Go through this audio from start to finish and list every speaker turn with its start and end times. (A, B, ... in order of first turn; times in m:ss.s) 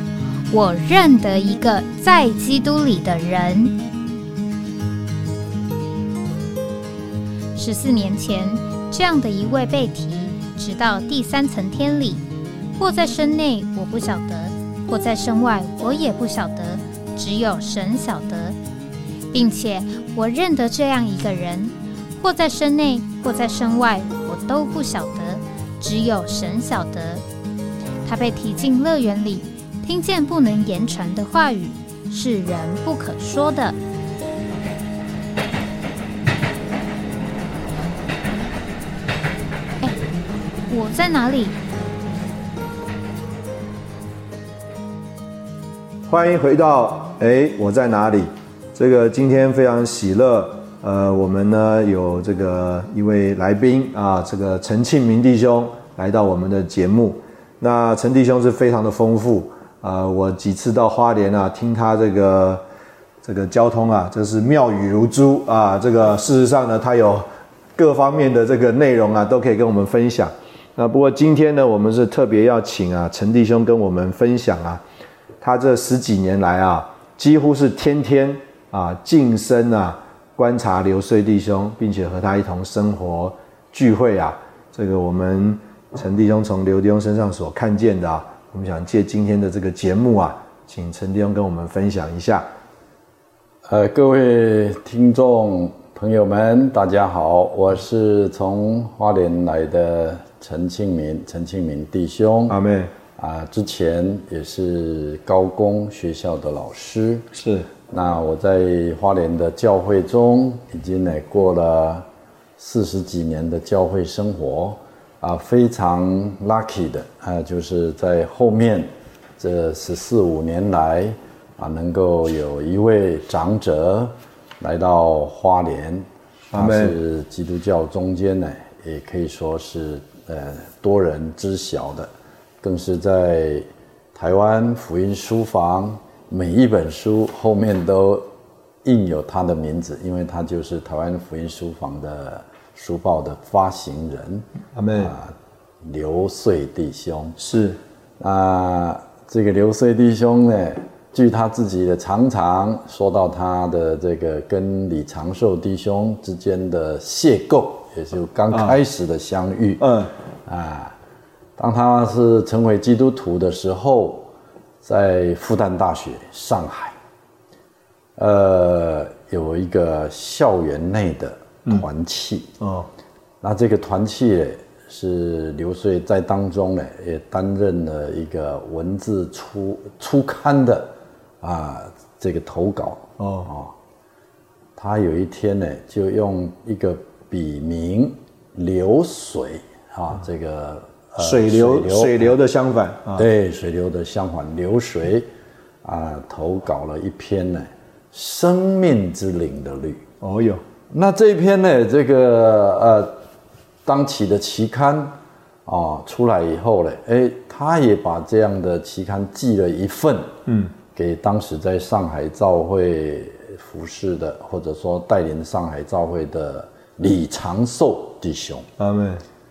0:00.5-0:03.8 A
0:07.5-0:12.2 A
0:12.8-0:18.6 A
0:19.3-0:27.2 A
0:28.0-0:33.8 A
0:40.7-0:41.6 A
0:46.1-1:02.6 B
1:03.2-1:07.2 B
1:07.8-1:14.8 B
1:15.4-1:32.4 B
1:33.7-1:42.6 C
1:42.5-1:42.9 B
1:43.2-1:47.2 C
1:47.4-1:47.7 B
1:47.9-1:52.0 C
1:52.6-2:18.2 C
2:06.5-2:07.0 B
2:18.8-2:27.4 C
2:24.7-2:25.1 B
2:27.4-2:27.8 B
2:28.2-2:39.8 C
2:38.5-2:38.8 B
2:39.8-2:40.1 B
2:40.4-2:40.9 C
2:41.6-2:44.3 C
2:44.8-2:47.0 C
2:48.2-2:52.5 C
2:52.6-2:52.9 B
2:53.4-3:03.7 C
3:03.2-3:03.5 B
3:04.8-3:12.3 C
3:11.2-3:13.3 B
3:13.2-3:15.3 C
3:15.8-3:20.0 C
3:20.2-3:20.6 B
3:20.9-3:23.1 C
3:23.8-3:25.1 C
3:25.6-3:30.3 C
3:30.5-3:30.7 B
3:30.9-3:38.6 C
3:38.8-3:39.2 B